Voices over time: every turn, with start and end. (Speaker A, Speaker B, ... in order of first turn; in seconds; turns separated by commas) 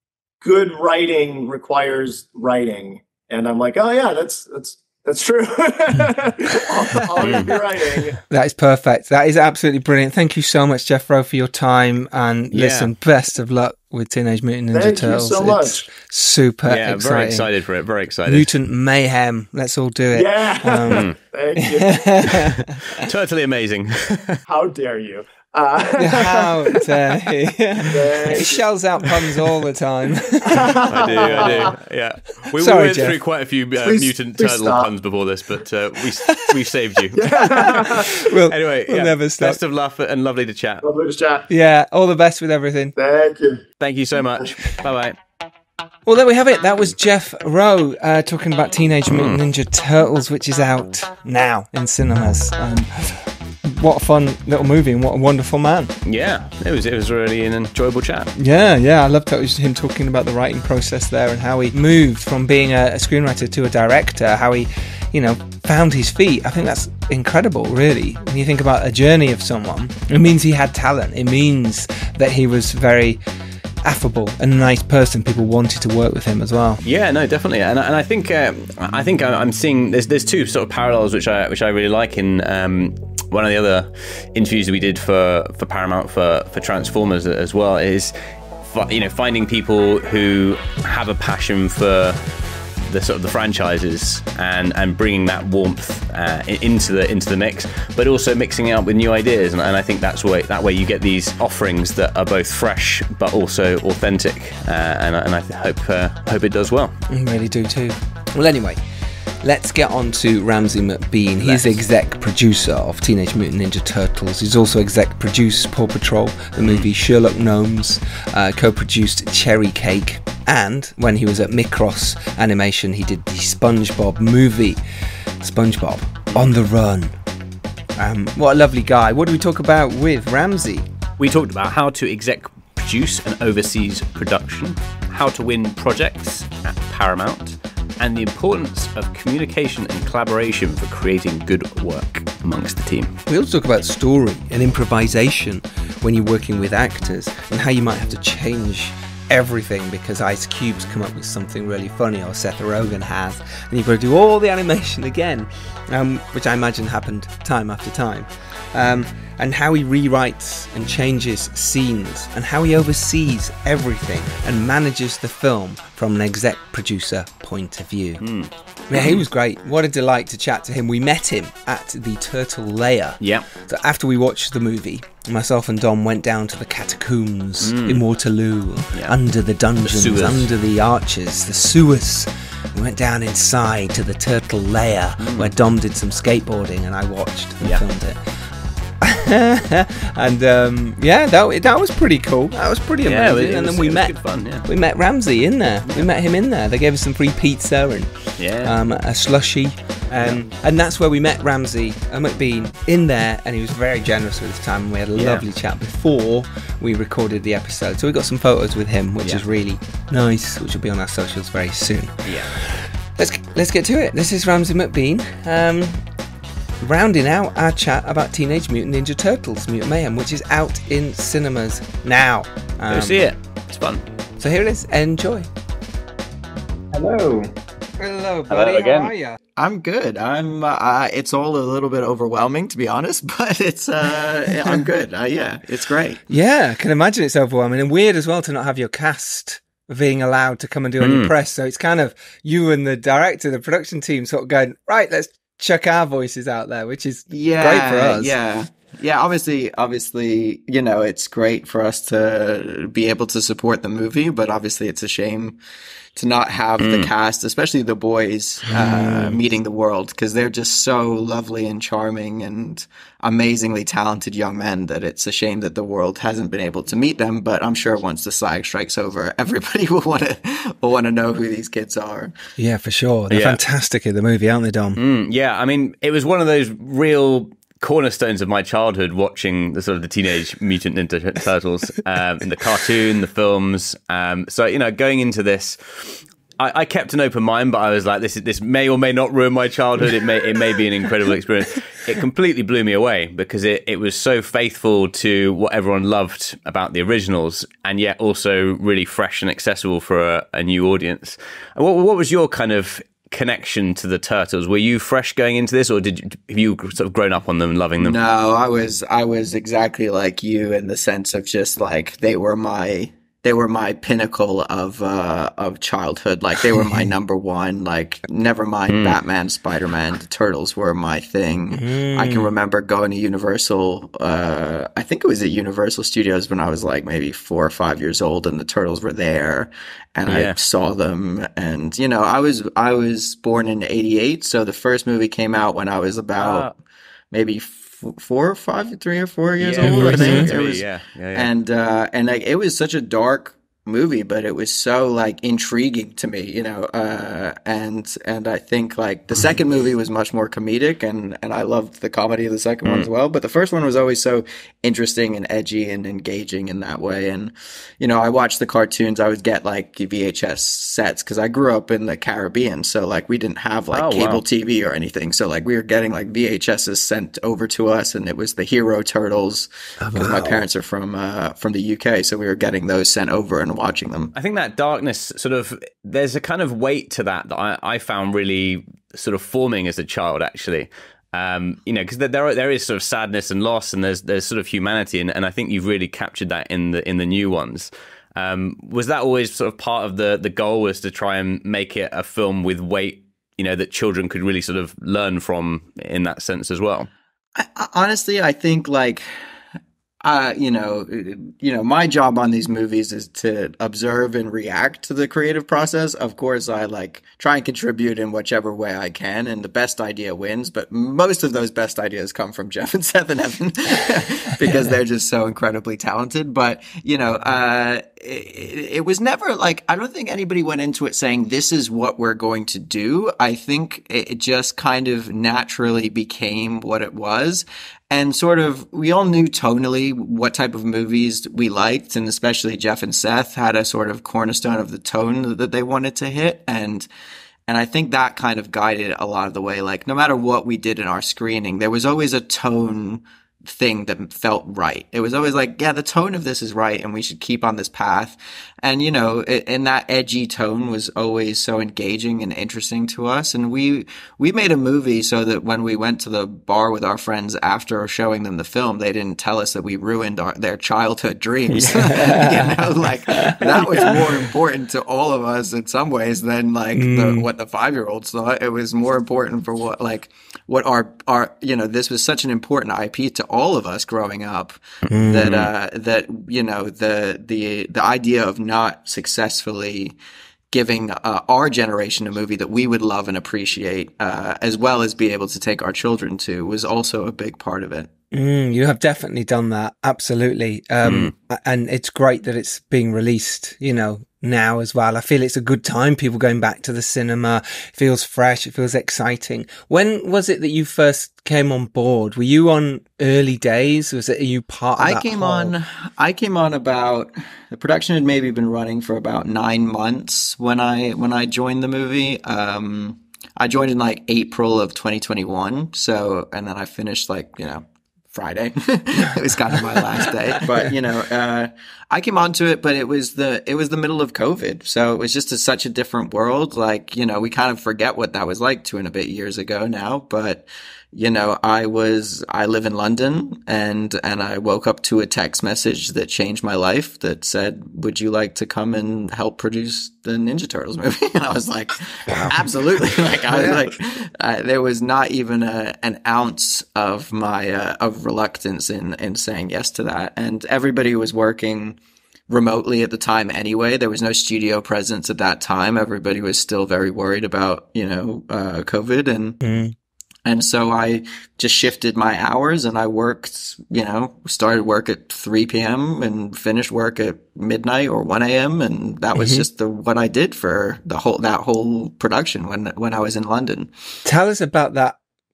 Speaker A: 0.4-8.2, Speaker B: 7.2-7.5, Speaker C: 8.3-17.5, Speaker B: 12.5-12.9, Speaker A: 14.7-15.8, Speaker B: 16.7-18.5, Speaker C: 18.3-23.1, Speaker A: 20.1-22.3, Speaker B: 20.9-21.1, Speaker B: 22.9-24.4, Speaker A: 24.5-27.0, Speaker C: 26.0-31.7, Speaker A: 27.9-28.6, Speaker A: 30.5-31.7, Speaker B: 30.7-40.8, Speaker C: 32.5-33.2, Speaker A: 33.8-34.9, Speaker C: 36.2-36.6, Speaker A: 37.1-38.2, Speaker C: 37.6-39.6, Speaker A: 40.8-41.5, Speaker C: 41.5-43.0, Speaker A: 43.0-43.6, Speaker B: 43.8-45.2, Speaker C: 46.1-55.9, Speaker B: 49.1-49.4, Speaker B: 56.0-58.3, Speaker C: 58.4-73.2, Speaker C: 73.8-76.8, Speaker B: 76.8-92.2, Speaker B: 92.8-106.9, Speaker C: 107.1-108.8, Speaker C: 109.4-124.8, Speaker B: 111.5-111.8, Speaker C: 125.4-127.2, Speaker C: 128.0-130.9, Speaker B: 131.2-143.1, Speaker C: 143.3-168.2, Speaker B: 168.2-169.2, Speaker C: 168.9-188.2, Speaker B: 173.2-173.5, Speaker B: 177.6-178.0, Speaker B: 179.8-180.5, Speaker B: 185.2-185.5, Speaker C: 189.0-216.0, Speaker B: 193.1-194.7, Speaker B: 198.4-198.8, Speaker B: 205.2-205.4, Speaker B: 212.3-212.6, Speaker C: 216.8-223.2, Speaker B: 222.9-224.0, Speaker C: 224.4-225.5, Speaker D: 226.9-227.5, Speaker C: 228.0-229.4, Speaker B: 228.5-229.1, Speaker D: 229.6-236.2, Speaker C: 236.3-248.3, Speaker B: 241.0-241.3, Speaker D: 247.3-255.6, Speaker D: 256.1-272.4, Speaker B: 256.8-257.1, Speaker C: 258.7-259.4, Speaker C: 272.6-275.0, Speaker B: 273.3-273.6, Speaker B: 275.0-308.2, Speaker D: 308.0-336.7, Speaker B: 318.9-319.2, Speaker C: 321.7-322.5, Speaker B: 330.3-330.6, Speaker B: 336.4-336.7, Speaker D: 337.3-374.4, Speaker B: 339.6-341.5, Speaker C: 339.8-340.5, Speaker B: 363.9-364.4, Speaker C: 370.0-370.6, Speaker B: 374.4-397.1, Speaker D: 397.6-399.3, Speaker D: 400.2-437.1, Speaker D: 437.7-480.2, Speaker C: 461.7-464.4, Speaker C: 466.9-467.5, Speaker C: 475.1-475.6, Speaker B: 475.4-475.7, Speaker D: 480.7-488.1, Speaker C: 488.3-505.8, Speaker B: 491.0-491.3, Speaker D: 505.0-552.0, Speaker C: 542.3-542.6, Speaker C: 543.5-543.9, Speaker D: 552.5-559.6, Speaker C: 559.6-559.9, Speaker D: 560.5-573.9, Speaker C: 569.4-569.7, Speaker C: 574.3-575.2